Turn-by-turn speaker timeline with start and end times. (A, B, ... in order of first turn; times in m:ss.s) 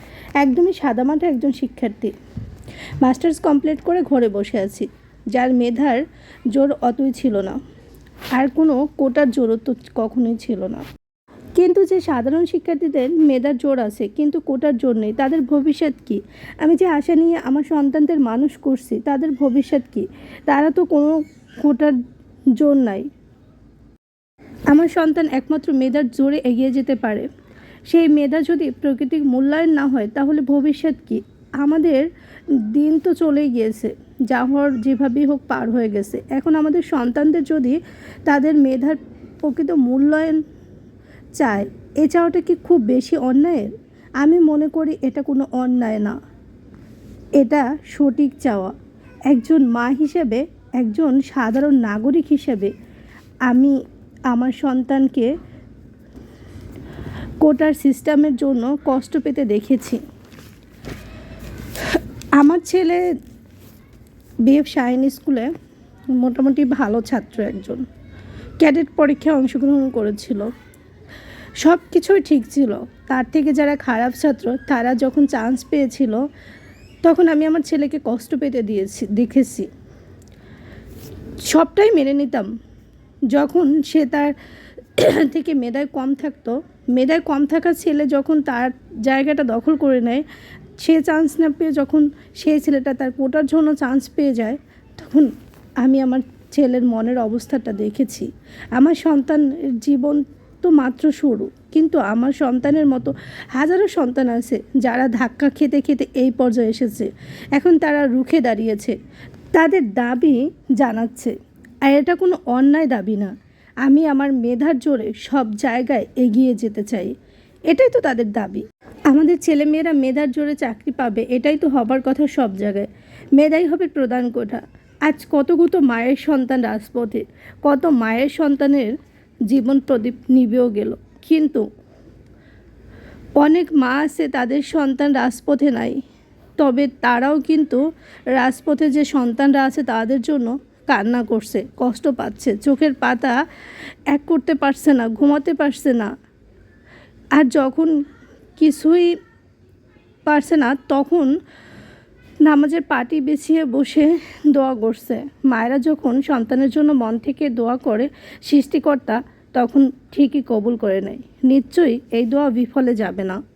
0:00.4-0:02.1 A
0:03.0-0:07.6 A
0:08.3-0:10.8 A
0:11.6-0:22.0 A
0:22.6-0:23.0 A
0:24.7-0:27.3 A
0:27.9-0:32.1 A
0:32.6-0:40.4 A
0:41.4-0:43.7 A
0:44.2-0:46.2 A
0:47.4-0:48.7 A
0:49.3-0:52.7 A
0:53.5-0:53.7 A
0:54.3-0:55.3 A
0:57.4-1:00.0 A
1:01.9-1:03.0 A
1:04.4-1:05.5 A
1:06.2-1:07.8 A
1:08.6-1:10.5 A
1:11.6-1:16.2 A
1:17.0-1:19.7 A
1:21.4-1:22.5 A
1:23.3-1:24.3 A
1:25.0-1:30.2 A
1:30.8-1:35.3 A
1:35.8-1:48.9 A
1:49.5-1:51.3 A
1:51.8-1:53.3 A
1:53.8-1:57.1 A
1:57.7-2:08.9 A
2:09.5-2:11.6 A
2:13.4-2:16.0 A
2:16.6-2:23.4 A
2:24.1-2:26.1 A
2:27.3-2:27.9 A
2:28.6-2:29.1 A
2:30.3-2:31.3 A
2:32.4-2:43.4 A